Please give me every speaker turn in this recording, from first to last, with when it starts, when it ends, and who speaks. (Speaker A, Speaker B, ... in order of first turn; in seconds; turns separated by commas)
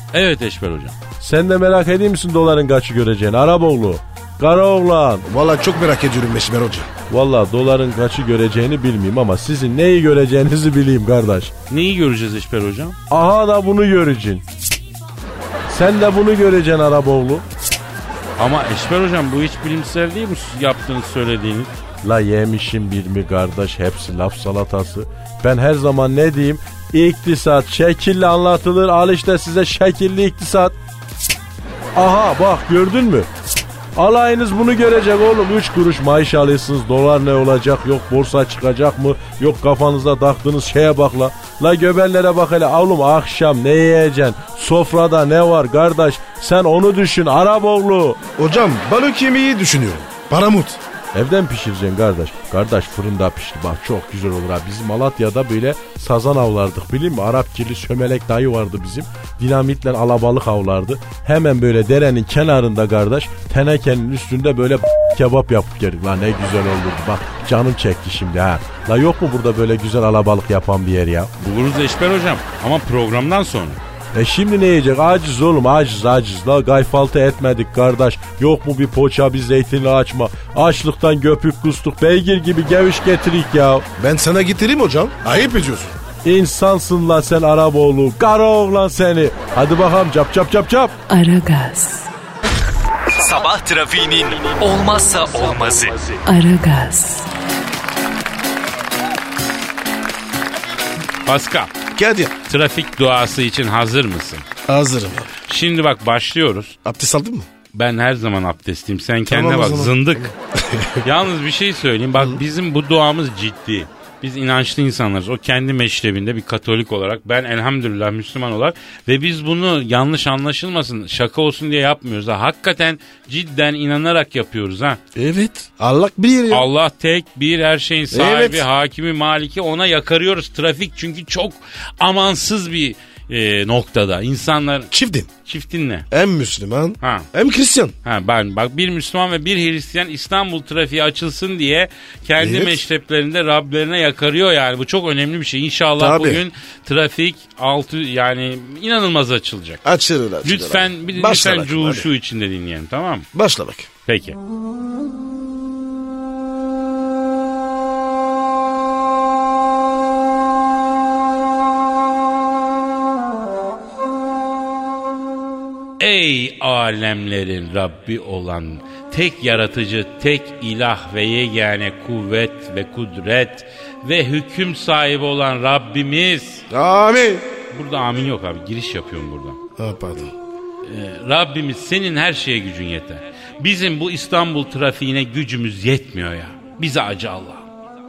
Speaker A: 0.1-1.0, Speaker B: 1.2-5.2, Speaker C: 5.2-6.9, Speaker B: 7.1-11.5, Speaker A: 11.7-13.0, Speaker B: 13.1-14.4, Speaker B: 15.7-17.4, Speaker A: 18.4-21.7, Speaker B: 22.0-30.7, Speaker B: 31.9-33.3, Speaker B: 34.0-48.2, Speaker C: 48.4-50.8, Speaker B: 51.1-71.3, Speaker A: 71.4-73.8, Speaker B: 74.1-83.8, Speaker C: 84.0-85.9, Speaker B: 86.2-90.9, Speaker D: 91.1-92.1, Speaker E: 93.1-96.2, Speaker D: 96.2-97.2, Speaker A: 101.2-101.7, Speaker C: 101.9-102.3, Speaker A: 102.5-104.4, Speaker C: 104.7-105.3, Speaker A: 105.5-106.8, Speaker C: 106.8-107.5, Speaker A: 107.7-110.3, Speaker C: 109.3-111.0, Speaker A: 111.0-125.0, Speaker C: 125.1-126.7, Speaker A: 126.5-134.9, Speaker C: 128.1-128.6, Speaker C: 134.9-135.3, Speaker A: 135.4-136.1, Speaker C: 136.1-137.9, Speaker A: 137.0-137.2, Speaker A: 138.0-149.8, Speaker C: 142.4-142.8, Speaker C: 146.0-146.4, Speaker C: 149.8-152.1, Speaker A: 150.4-153.3, Speaker C: 153.3-153.9, Speaker A: 154.1-154.4, Speaker A: 166.0-176.6, Speaker C: 176.7-177.4, Speaker A: 177.7-179.6, Speaker C: 179.8-180.3, Speaker A: 180.8-187.7